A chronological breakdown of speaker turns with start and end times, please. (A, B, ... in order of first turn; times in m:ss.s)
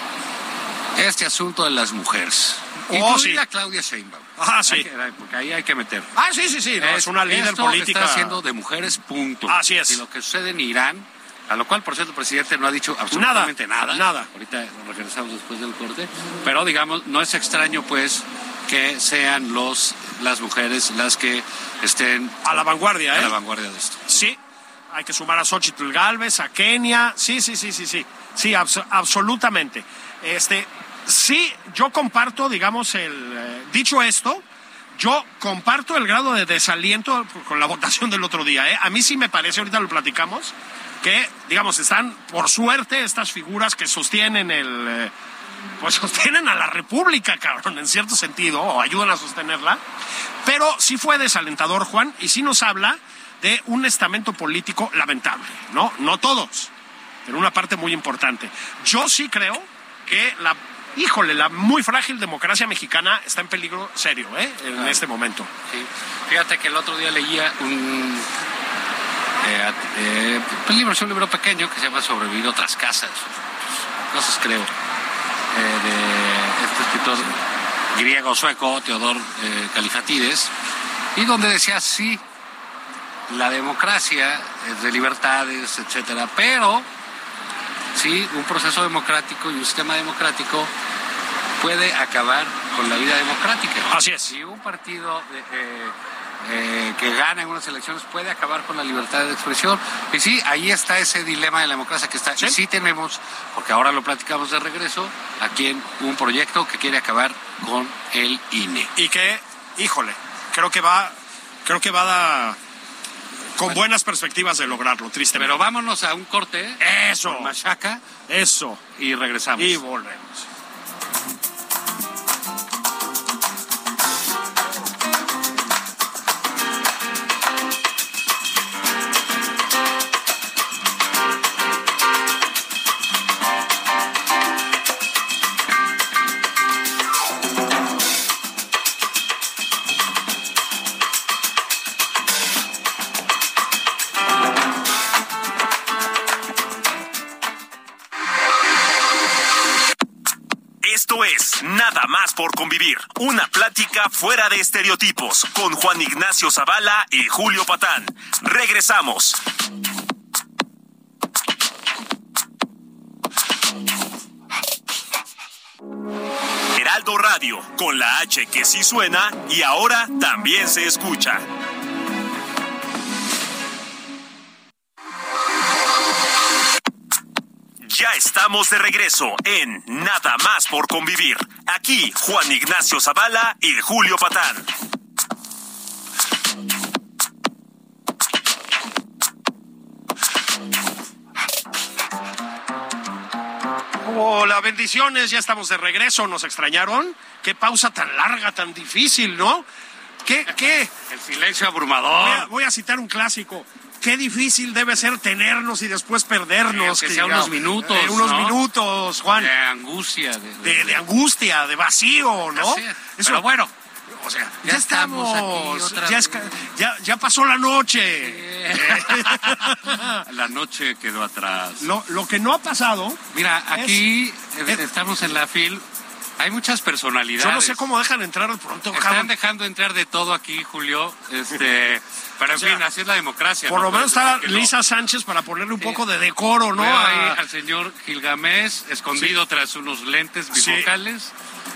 0:01.0-0:06.1 A
0:02.9-0:03.4 B
0:04.4-0:04.9 B
0:06.2-0:08.4 B
0:06.8-0:22.4 A
0:09.5-0:10.0 B
0:13.1-0:14.3 B
0:22.4-0:23.4 B
0:23.1-0:24.3 A
0:24.1-0:24.4 B
0:24.9-0:34.4 B
0:35.0-0:45.1 B
0:45.8-0:49.8 B
0:50.4-0:56.7 B
0:57.3-1:05.5 B
1:04.7-1:05.0 A
1:05.7-1:08.3 A
1:09.4-1:13.3 A
1:14.1-1:14.7 A
1:15.5-1:17.4 A
1:17.9-1:20.5 A
1:21.2-1:22.2 A
1:23.3-1:26.9 A
1:28.0-1:30.7 A
1:31.6-1:48.9 A
1:33.9-1:34.3 B
1:49.0-1:52.6 B
1:53.6-1:55.6 B
1:55.3-1:58.0 A
1:56.8-1:57.5 B
1:58.3-1:58.8 B
1:59.0-1:59.8 A
1:59.6-2:00.5 B
2:30.8-2:39.4 C
2:46.8-2:51.4 C
2:57.8-3:04.7 C
3:14.0-3:19.7 B
3:20.2-3:20.9 B
3:21.0-3:22.5 A
3:22.2-3:29.5 B
3:26.7-3:28.6 A
3:29.3-3:31.0 A
3:30.6-3:33.4 B
3:32.5-3:33.7 A
3:34.1-3:40.2 B
3:34.6-3:36.5 A
3:38.2-3:41.9 A
3:41.8-3:43.2 B
3:43.3-3:45.8 A
3:43.7-3:44.0 B
3:46.4-3:47.9 A
3:47.4-3:49.3 B
3:48.9-3:54.7 A
3:53.7-3:57.4 B
3:56.8-4:01.3 A
4:00.5-4:00.9 B